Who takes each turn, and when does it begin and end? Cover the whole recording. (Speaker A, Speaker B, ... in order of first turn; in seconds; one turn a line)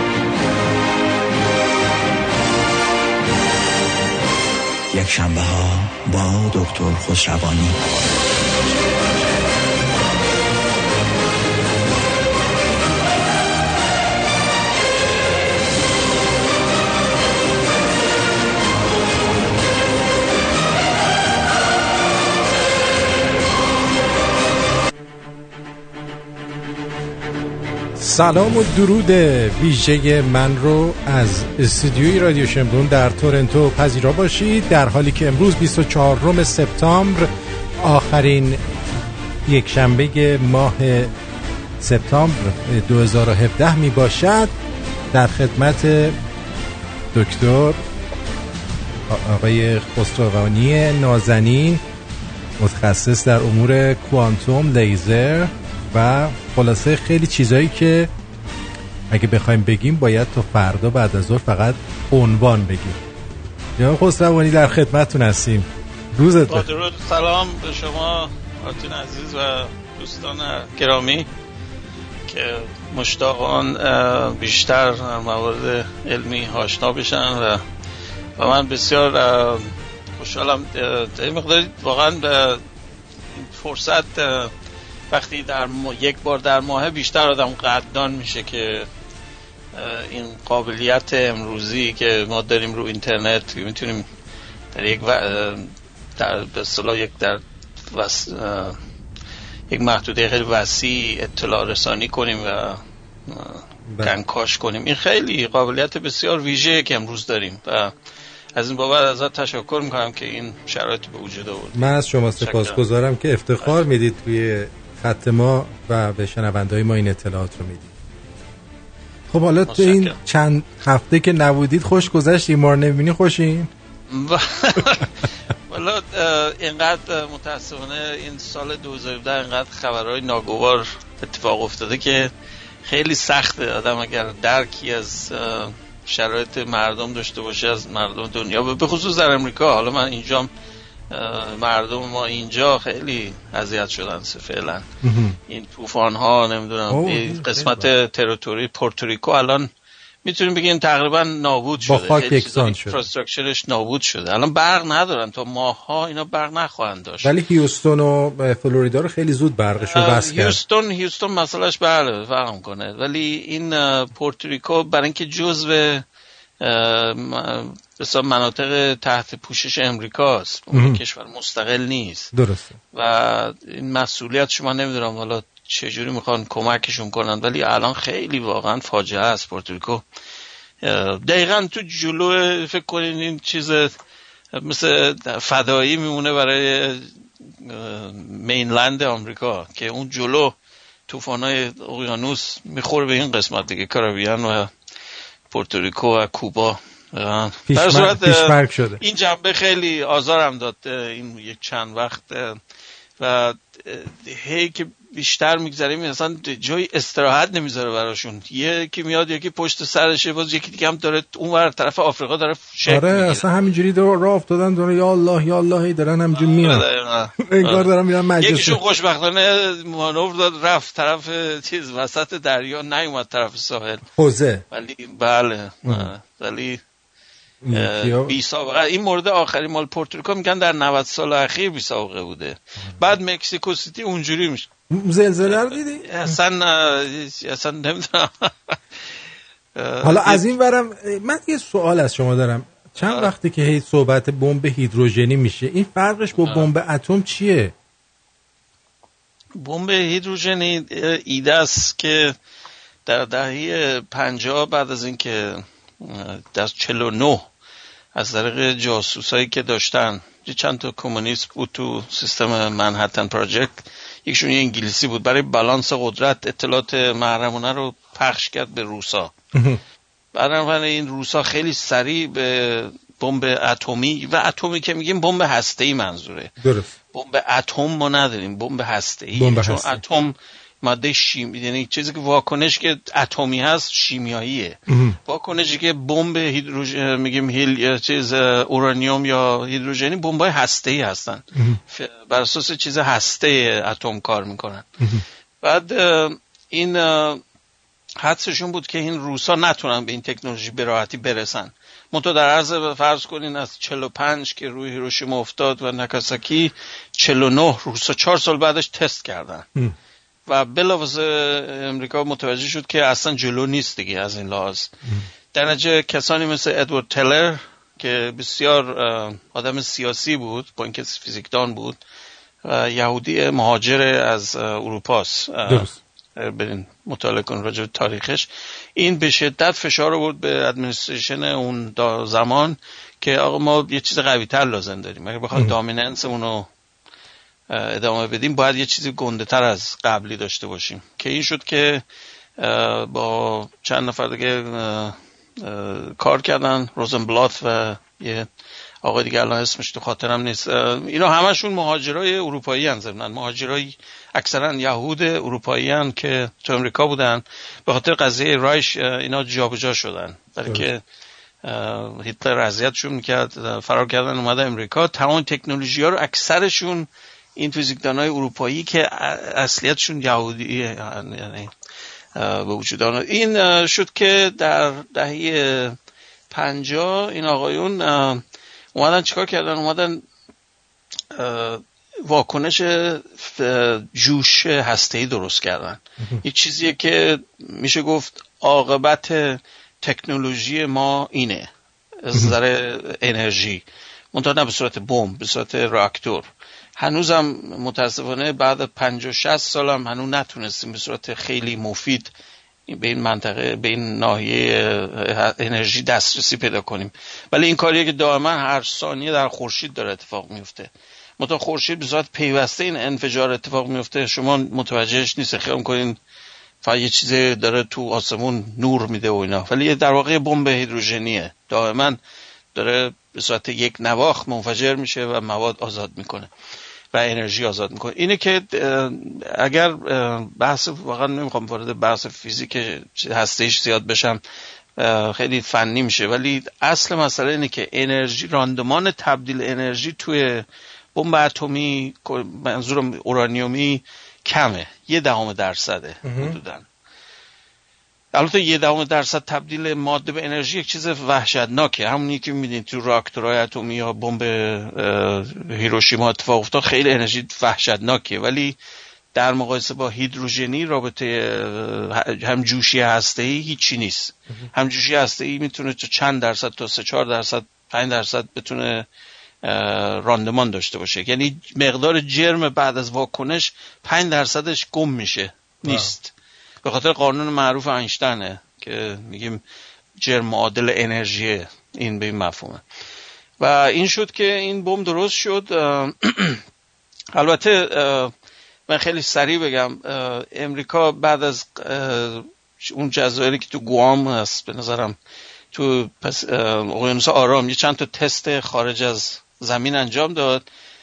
Speaker A: 4.9-7.8
Speaker B: 28.0-37.3
Speaker B: 37.8-38.6
Speaker B: 39.5-41.1
Speaker B: 41.8-44.5
Speaker B: 45.1-46.2
Speaker B: 47.1-47.8
Speaker B: 49.1-51.8
Speaker B: 52.6-58.1
Speaker B: 59.1-63.0
Speaker B: 63.8-66.7
Speaker C: 66.5-71.3
Speaker C: 72.3-77.6
Speaker C: 78.4-82.6
Speaker C: 83.4-84.5
Speaker C: 85.1-88.9
Speaker C: 89.7-94.0
Speaker C: 94.7-98.8
Speaker C: 99.7-107.9
Speaker B: 103.9-104.2
Speaker C: 108.6-112.8
Speaker B: 111.7-118.0
Speaker B: 119.3-123.7
Speaker C: 119.7-120.2
Speaker C: 124.1-132.3
Speaker C: 132.9-140.5
Speaker C: 141.1-144.9
Speaker B: 145.0-145.4
Speaker C: 145.5-149.7
Speaker B: 146.9-147.9
Speaker C: 150.2-157.3
Speaker B: 151.8-153.0
Speaker B: 157.2-160.6
Speaker C: 159.8-166.1
Speaker C: 166.6-172.3
Speaker B: 170.7-171.0
Speaker B: 172.3-172.8
Speaker C: 172.9-180.0
Speaker C: 180.8-183.9
Speaker C: 184.5-187.1
Speaker C: 187.6-190.6
Speaker C: 191.1-194.7
Speaker C: 195.5-202.6
Speaker B: 197.7-199.0
Speaker C: 203.2-213.5
Speaker B: 212.9-216.9
Speaker C: 216.4-217.9
Speaker B: 217.4-218.8
Speaker C: 218.4-224.0
Speaker B: 224.2-224.6
Speaker C: 224.7-226.8
Speaker B: 227.6-228.4
Speaker C: 227.7-234.7
Speaker B: 234.9-236.1
Speaker C: 235.5-238.8
Speaker C: 239.8-240.5
Speaker B: 240.0-247.7
Speaker C: 243.0-243.3
Speaker C: 246.4-246.7
Speaker C: 249.6-252.3
Speaker C: 253.1-257.5
Speaker C: 258.1-269.3
Speaker B: 269.5-269.8
Speaker C: 270.4-276.5
Speaker B: 276.6-276.9
Speaker C: 277.1-294.9
Speaker B: 279.4-280.0
Speaker B: 284.9-285.2
Speaker B: 291.6-291.8
Speaker C: 295.6-297.4
Speaker C: 298.2-309.7
Speaker C: 310.5-314.9
Speaker C: 315.5-322.0
Speaker C: 322.6-336.7
Speaker B: 325.7-326.0
Speaker C: 337.7-342.0
Speaker C: 342.6-348.5
Speaker C: 349.0-361.0
Speaker C: 361.6-371.7
Speaker C: 372.4-376.0
Speaker C: 376.5-378.4
Speaker C: 378.9-380.2
Speaker C: 381.3-391.7
Speaker C: 392.2-402.3
Speaker C: 402.9-416.2
Speaker C: 416.8-422.2
Speaker C: 422.7-426.5
Speaker C: 427.1-434.4
Speaker C: 435.0-446.9
Speaker B: 446.2-446.6
Speaker C: 448.3-458.8
Speaker C: 459.3-469.1
Speaker C: 469.6-479.6
Speaker B: 475.9-476.1
Speaker C: 480.2-482.8
Speaker C: 483.6-486.6
Speaker C: 487.3-488.3
Speaker C: 488.9-495.2
Speaker C: 495.7-500.6